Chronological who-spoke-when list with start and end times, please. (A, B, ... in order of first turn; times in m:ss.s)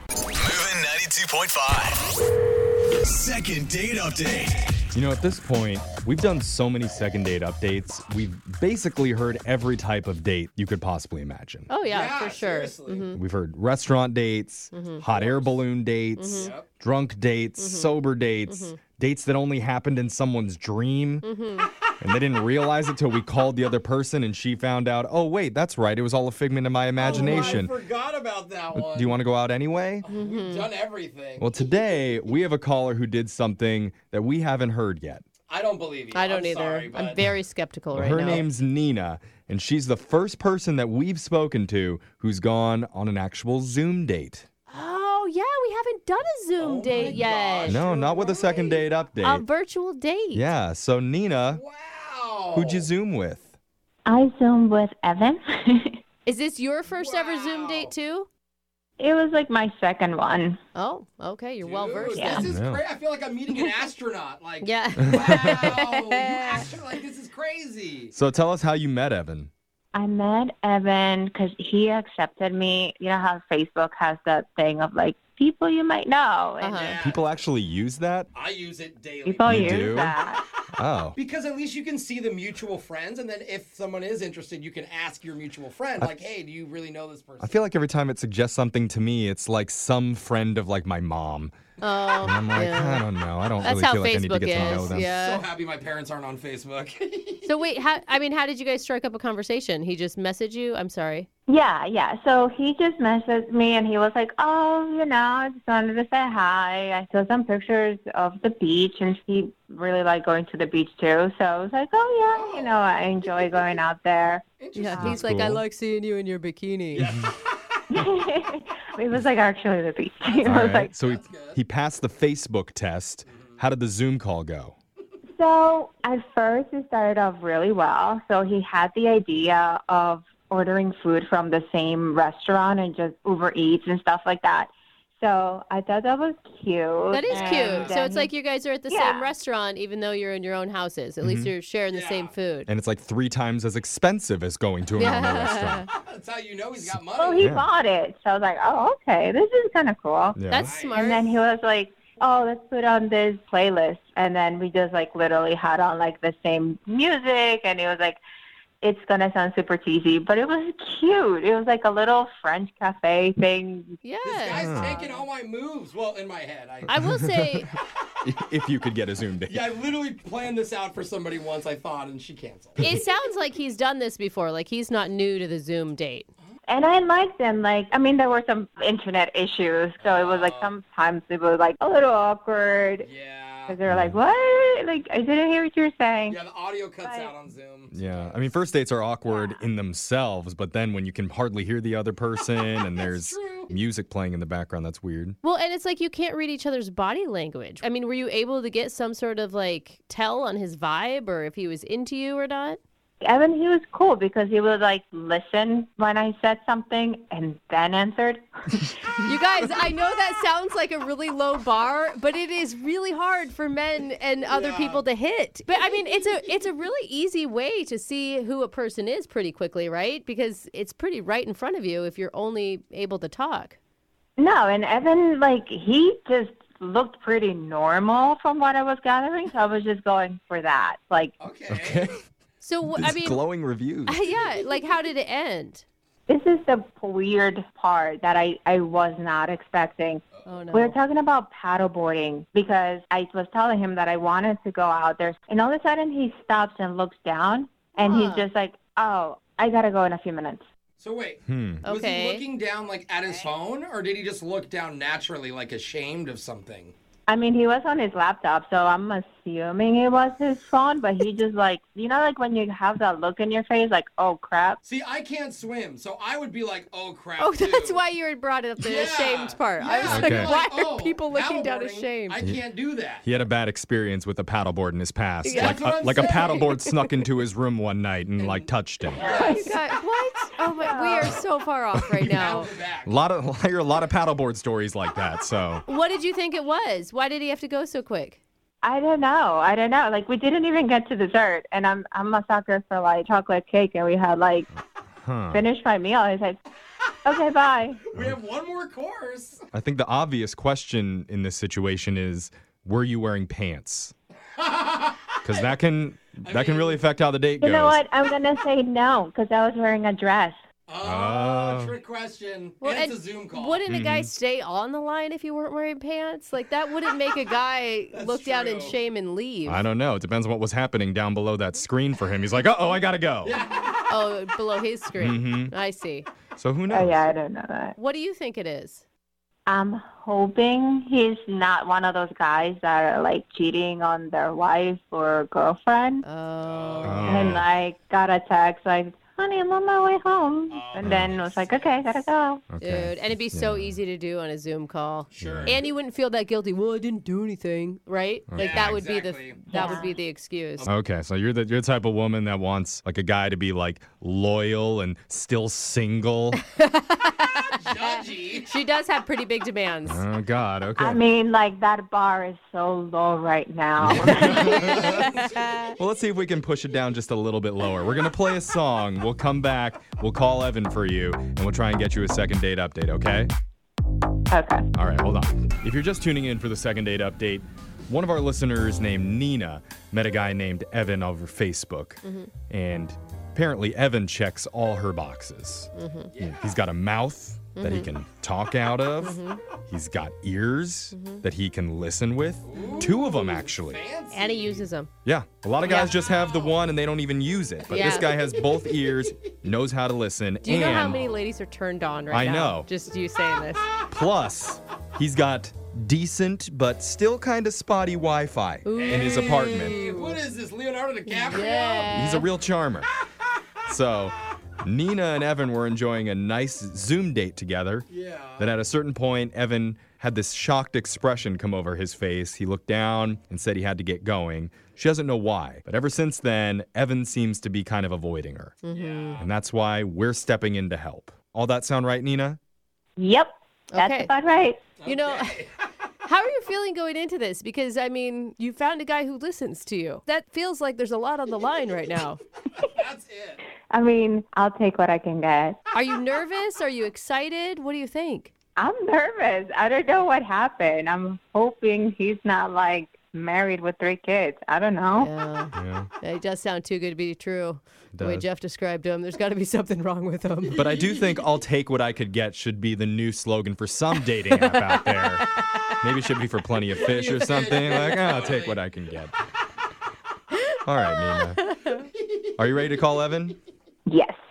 0:00.4-0:02.0 A
0:03.1-0:04.7 A
0:04.9-0:11.7 B
0:11.7-0:13.2 C
0:11.8-0:13.1 D
0:13.1-0:21.3 B
0:14.7-0:15.0 C
0:15.1-0:15.7 D
0:16.2-0:16.5 C
0:16.3-0:16.7 D
0:17.6-0:18.8 C
0:21.2-0:21.6 C
0:22.0-0:27.7 B
0:27.0-0:29.2 D
0:27.1-0:27.6 C
0:28.7-0:30.1 B
0:30.0-0:31.6 D
0:30.1-0:30.7 C
0:31.4-0:35.2 B
0:35.5-0:37.2 D
0:36.1-0:38.4 C
0:37.9-0:44.5 B
0:44.7-0:47.8 C
0:46.6-0:48.9 D
0:47.6-0:49.4 B
0:49.2-0:50.5 C
0:50.3-0:51.6 B
0:51.5-0:52.9 D
0:52.5-0:53.5 B
0:54.0-0:56.0 E
0:56.2-0:58.3 C
0:56.9-0:57.9 D
0:59.0-1:00.6 E
1:00.7-1:02.4 C
1:01.6-1:08.1 D
1:02.2-1:02.4 E
1:02.4-1:02.8 B
1:04.6-1:06.7 C
1:05.0-1:05.5 B
1:08.1-1:09.5 B
1:09.9-1:17.0 E
1:16.6-1:17.0 C
1:16.8-1:17.2 D
1:17.0-1:18.3 B
1:18.3-1:20.1 D
1:19.2-1:20.4 E
1:19.4-1:20.1 B
1:20.7-1:21.2 B
1:21.2-1:27.6 D
1:26.0-1:26.2 B
1:27.4-1:31.6 B
1:31.8-1:33.0 C
1:32.2-1:35.1 B
1:33.6-1:35.4 C
1:34.5-1:37.5 D
1:37.4-1:41.3 C
1:41.5-1:55.2 E
1:52.3-1:53.7 D
1:54.6-1:55.4 D
1:54.7-1:57.1 C
1:55.0-1:55.6 B
1:56.9-1:57.8 D
1:57.9-2:00.9 E
2:00.2-2:01.6 D
2:00.4-2:04.8 B
2:03.2-2:03.6 D
2:05.3-2:18.3 E
2:17.1-2:22.7 C
2:17.2-2:17.9 D
2:18.9-2:19.3 E
2:21.2-2:21.5 B
2:21.9-2:22.3 D
2:22.7-2:25.8 B
2:24.9-2:25.9 C
2:26.0-2:27.5 D
2:26.8-2:27.6 B
2:27.2-2:30.4 E
2:30.3-2:30.7 B
2:30.5-2:31.4 C
2:30.6-2:31.2 D
2:30.9-2:38.2 E
2:38.8-2:44.0 E
2:44.0-2:45.2 C
2:44.2-2:47.0 D
2:44.5-2:44.9 B
2:46.9-2:47.7 C
2:46.9-2:47.6 B
2:48.2-2:49.7 B
2:49.5-2:52.8 D
2:52.8-2:56.3 C
2:56.7-3:03.1 E
3:00.0-3:00.7 D
3:03.0-3:03.8 D
3:03.7-3:06.4 E
3:03.8-3:04.2 B
3:06.2-3:08.4 D
3:07.0-3:07.3 E
3:07.9-3:15.4 B
3:09.3-3:09.6 E
3:12.8-3:13.8 D
3:15.4-3:22.8 C
3:23.2-3:28.9 E
3:29.2-3:43.8 C
3:34.5-3:35.0 D
3:44.4-3:51.3 E
3:51.4-3:52.2 D
3:51.7-3:52.2 B
3:52.6-3:53.4 C
3:52.9-3:54.2 B
3:54.1-3:55.8 C
3:56.3-4:10.6 E
4:00.3-4:00.6 D
4:00.4-4:01.0 C
4:08.0-4:08.5 C
4:11.0-4:16.9 D
4:11.4-4:11.8 B
4:11.8-4:12.4 C
4:17.3-4:24.8 E
4:24.8-4:28.0 D
4:27.4-4:32.4 C
4:28.8-4:33.2 D
4:30.0-4:30.5 B
4:33.2-4:39.4 B
4:35.4-4:36.9 C
4:35.5-4:36.7 D
4:38.4-4:39.8 D
4:39.2-4:39.7 E
4:39.2-4:42.7 C
4:40.8-4:41.3 E
4:41.9-4:42.4 B
4:42.3-4:43.1 D
4:43.0-4:45.8 B
4:45.8-4:48.4 C
4:48.8-4:54.7 E
4:55.1-4:55.6 B
4:55.5-4:56.6 E
4:57.2-4:58.0 E
4:58.0-4:59.6 D
4:58.1-4:58.4 B
4:59.7-5:04.1 B
5:04.5-5:05.4 D
5:05.4-5:08.0 B
5:06.4-5:07.0 D
5:07.6-5:10.6 E
5:10.9-5:13.8 D
5:11.0-5:12.0 B
5:12.8-5:19.8 C
5:13.9-5:14.3 B
5:18.1-5:19.0 D
5:19.6-5:23.6 B
5:23.4-5:24.2 D
5:24.1-5:26.3 C
5:25.2-5:25.7 B
5:26.6-5:27.3 B
5:26.9-5:27.9 E
5:28.0-5:29.0 C
5:29.7-5:36.2 E
5:36.2-5:37.5 C
5:36.6-5:37.6 D
5:37.0-5:37.6 B
5:37.2-5:42.6 E
5:40.7-5:42.3 D
5:41.0-5:41.4 B
5:42.7-5:44.0 B
5:42.8-5:50.9 C
5:45.3-5:45.8 D
5:45.4-5:45.8 B
5:48.5-5:49.0 B
5:48.5-5:50.1 D
5:49.7-5:50.1 E
5:50.8-5:56.6 B
5:56.7-5:57.7 C
5:57.8-5:58.7 D
5:58.7-6:00.2 C
6:00.0-6:01.2 B
6:01.0-6:05.2 E
6:04.0-6:05.3 B
6:04.3-6:05.7 C
6:04.6-6:05.7 D
6:06.0-6:13.5 B
6:14.5-6:14.8 E
6:14.9-6:34.0 B
6:22.2-6:22.5 C
6:25.9-6:26.3 C
6:26.3-6:26.7 D
6:27.7-6:28.1 C
6:29.2-6:29.6 C
6:31.1-6:31.4 C
6:32.6-6:34.9 D
6:34.3-6:35.1 C
6:35.2-6:41.2 B
6:35.8-6:36.1 C
6:36.1-6:36.8 D
6:37.9-6:39.1 D
6:37.9-6:38.3 C
6:40.6-6:43.9 C
6:40.6-6:41.4 D
6:42.3-6:42.9 B
6:44.1-6:50.0 B
6:48.8-6:50.4 C
6:48.9-6:52.1 D
6:51.3-6:52.5 C
6:52.1-6:53.1 B
6:53.8-6:58.1 B
6:58.1-6:58.7 D
6:58.6-7:08.8 B
7:08.8-7:09.4 C
7:08.9-7:09.5 D
7:09.4-7:12.6 B
7:13.2-7:14.8 E
7:13.9-7:14.3 C
7:15.0-7:15.8 D
7:15.0-7:15.6 C
7:16.2-7:22.4 C
7:22.8-7:23.6 D
7:23.9-7:25.8 E
7:25.9-7:28.5 C
7:28.8-7:35.3 E
7:35.2-7:40.8 C
7:35.7-7:36.1 B
7:38.1-7:38.5 B
7:40.7-7:41.1 D
7:40.7-7:45.4 B
7:44.5-7:46.0 C
7:46.0-7:49.3 B
7:46.9-7:48.9 D
7:50.8-7:51.6 B
7:51.1-7:52.1 C
7:51.9-7:53.0 D
7:52.6-7:53.6 B
7:54.1-7:54.4 E